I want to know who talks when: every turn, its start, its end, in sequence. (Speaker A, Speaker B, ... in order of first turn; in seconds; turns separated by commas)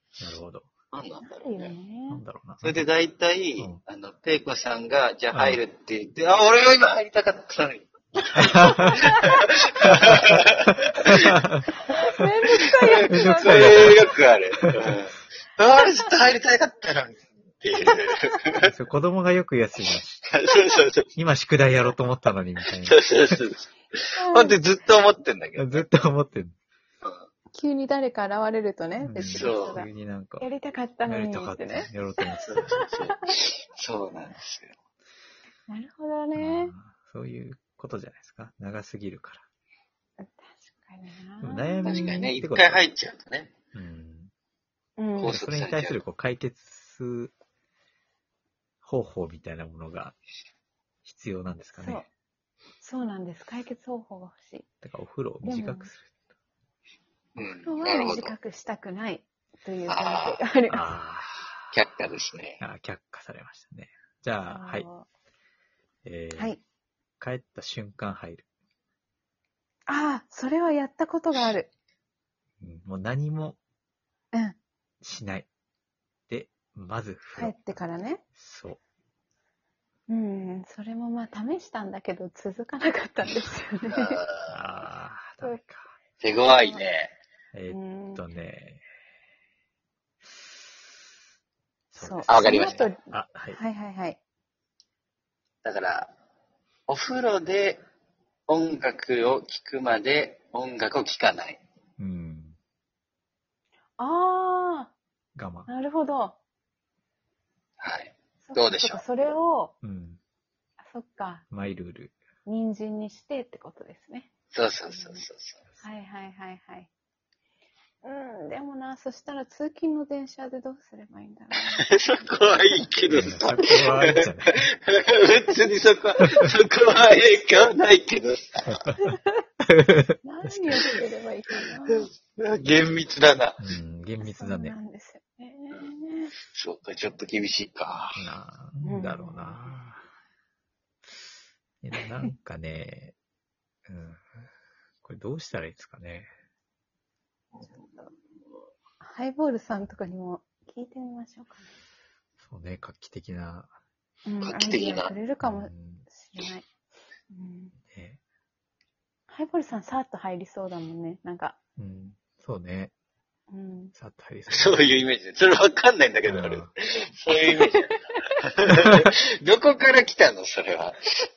Speaker A: 0.2-0.7, Speaker B: 0.9-1.7, Speaker C: 1.2-2.2, Speaker A: 2.1-2.8, Speaker B: 2.6-11.3, Speaker A: 5.3-5.6, Speaker A: 8.3-9.0, Speaker C: 8.5-9.4, Speaker A: 9.8-10.4, Speaker A: 11.0-11.6, Speaker C: 11.8-14.2, Speaker A: 12.9-14.0, Speaker B: 13.2-18.7, Speaker A: 18.6-20.3, Speaker B: 20.3-21.1, Speaker A: 21.1-23.4, Speaker B: 22.8-25.9, Speaker C: 24.2-24.6, Speaker A: 25.6-26.5, Speaker C: 27.5-29.9, Speaker A: 29.0-30.5, Speaker B: 29.3-29.8, Speaker C: 30.4-33.3, Speaker A: 31.0-32.8, Speaker B: 32.5-34.7, Speaker C: 35.7-36.7, Speaker A: 36.4-39.5, Speaker C: 40.2-42.3, Speaker A: 41.4-42.8, Speaker B: 41.8-43.5, Speaker A: 43.7-44.3, Speaker C: 45.0-45.4, Speaker B: 45.1-46.0, Speaker A: 45.2-47.3, Speaker A: 48.8-50.2, Speaker A: 51.0-52.0, Speaker C: 51.8-52.1, Speaker C: 52.8-54.7, Speaker A: 54.8-56.1, Speaker C: 55.4-55.9, Speaker B: 57.4-58.3, Speaker C: 57.4-60.9, Speaker B: 59.9-60.4, Speaker A: 60.7-61.7, Speaker B: 61.7-62.6, Speaker A: 62.6-64.8, Speaker C: 64.4-65.1, Speaker A: 66.0-66.5, Speaker A: 67.2-68.5, Speaker C: 69.9-71.7, Speaker A: 72.6-73.6, Speaker A: 75.0-75.5, Speaker A: 76.3-77.8, Speaker C: 77.3-78.2, Speaker A: 78.3-78.8, Speaker C: 80.1-84.2, Speaker B: 83.9-84.6, Speaker A: 84.5-85.9, Speaker B: 86.2-87.1, Speaker C: 86.5-86.8, Speaker A: 87.5-88.8, Speaker C: 87.7-88.2, Speaker C: 91.9-94.2, Speaker A: 92.0-93.6, Speaker B: 92.3-92.9, Speaker B: 95.6-96.1, Speaker B: 96.9-97.8, Speaker B: 98.5-101.6, Speaker A: 102.0-102.5, Speaker C: 104.0-104.9, Speaker A: 105.3-105.7, Speaker C: 105.7-106.4, Speaker B: 107.8-109.1, Speaker C: 108.4-109.7, Speaker A: 109.8-110.2, Speaker C: 110.8-111.4, Speaker A: 111.5-112.2, Speaker C: 112.5-114.3, Speaker B: 114.5-115.6, Speaker C: 114.9-115.2, Speaker C: 115.8-116.9, Speaker C: 118.0-121.8, Speaker B: 121.5-128.8, Speaker A: 123.1-124.7, Speaker A: 128.7-129.1, Speaker C: 129.0-129.4, Speaker A: 129.6-130.9, Speaker C: 130.2-132.1, Speaker B: 131.9-133.6, Speaker A: 133.6-134.8, Speaker C: 134.2-136.3, Speaker B: 136.4-138.3, Speaker A: 138.2-140.1, Speaker C: 138.8-139.6, Speaker A: 141.8-143.2, Speaker A: 143.9-144.5, Speaker A: 145.0-146.3, Speaker B: 147.6-148.1, Speaker C: 149.0-151.7, Speaker A: 152.4-153.7, Speaker C: 154.2-156.7, Speaker B: 154.4-155.1, Speaker A: 155.4-156.1, Speaker C: 157.3-157.7, Speaker A: 157.9-158.2, Speaker C: 159.3-161.6, Speaker A: 161.8-162.9, Speaker C: 163.5-163.9, Speaker A: 163.9-164.9, Speaker B: 164.5-171.0, Speaker A: 166.2-166.7, Speaker C: 167.5-168.3